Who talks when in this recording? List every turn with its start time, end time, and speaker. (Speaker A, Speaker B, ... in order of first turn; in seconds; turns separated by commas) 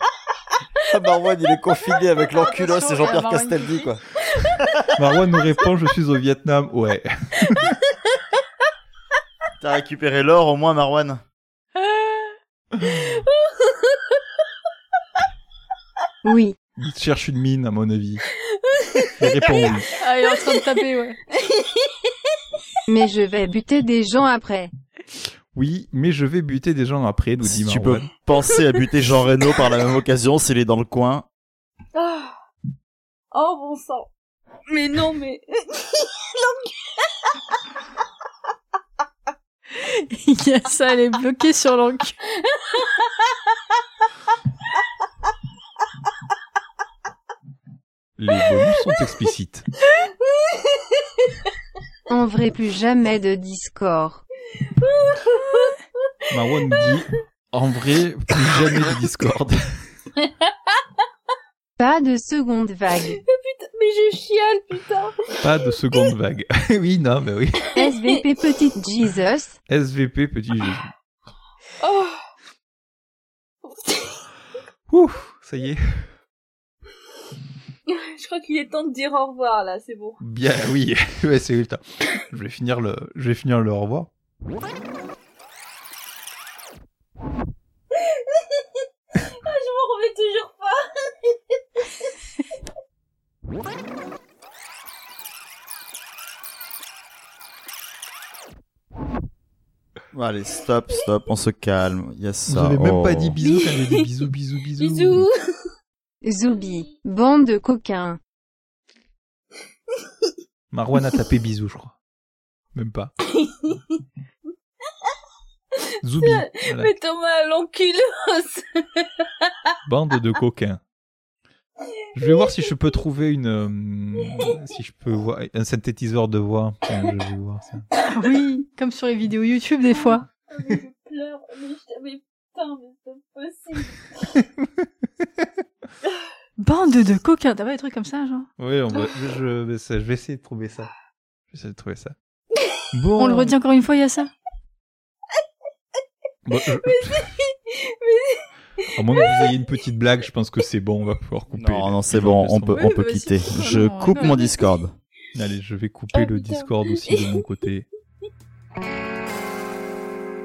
Speaker A: 0.9-4.0, Speaker B: 2.3-3.9, Speaker A: 4.5-4.8, Speaker C: 5.0-7.7, Speaker A: 9.6-11.2, Speaker D: 13.0-14.0, Speaker E: 16.2-16.6, Speaker C: 16.8-18.2, Speaker D: 18.7-19.1, Speaker C: 19.2-19.9, Speaker B: 20.0-21.2, Speaker D: 21.4-21.8, Speaker E: 22.9-24.7, Speaker C: 25.5-28.1, Speaker A: 27.4-31.2, Speaker D: 31.9-32.3, Speaker D: 33.3-34.1, Speaker D: 34.7-36.5, Speaker B: 39.9-42.1, Speaker C: 48.2-49.6, Speaker E: 52.1-54.2, Speaker D: 54.8-55.8, Speaker C: 56.3-59.9, Speaker E: 61.8-63.2, Speaker D: 63.2-65.3, Speaker C: 65.4-67.7, Speaker E: 67.7-69.6, Speaker C: 69.7-70.9, Speaker D: 71.8-72.2, Speaker D: 73.7-74.2, Speaker C: 74.9-76.1, Speaker D: 77.9-80.2, Speaker C: 80.2-84.1, Speaker D: 89.3-91.3, Speaker A: 100.1-103.3, Speaker C: 102.5-105.3, Speaker D: 103.4-103.7, Speaker D: 104.8-105.3, Speaker E: 106.2-108.2, Speaker C: 110.7-112.0, Speaker C: 112.7-113.1, Speaker D: 113.4-113.7, Speaker C: 116.0-116.9, Speaker D: 116.2-119.2, Speaker C: 119.8-120.8, Speaker C: 122.1-127.9, Speaker B: 128.1-130.2, Speaker D: 129.9-134.0, Speaker C: 134.3-134.8, Speaker B: 136.6-138.5, Speaker C: 138.6-140.9, Speaker C: 141.5-142.1, Speaker C: 142.9-143.5, Speaker B: 143.2-144.3, Speaker C: 146.4-147.3, Speaker D: 147.9-149.5, Speaker C: 148.9-152.9, Speaker A: 151.5-154.9, Speaker B: 152.8-154.5, Speaker C: 155.3-157.8, Speaker D: 156.1-157.4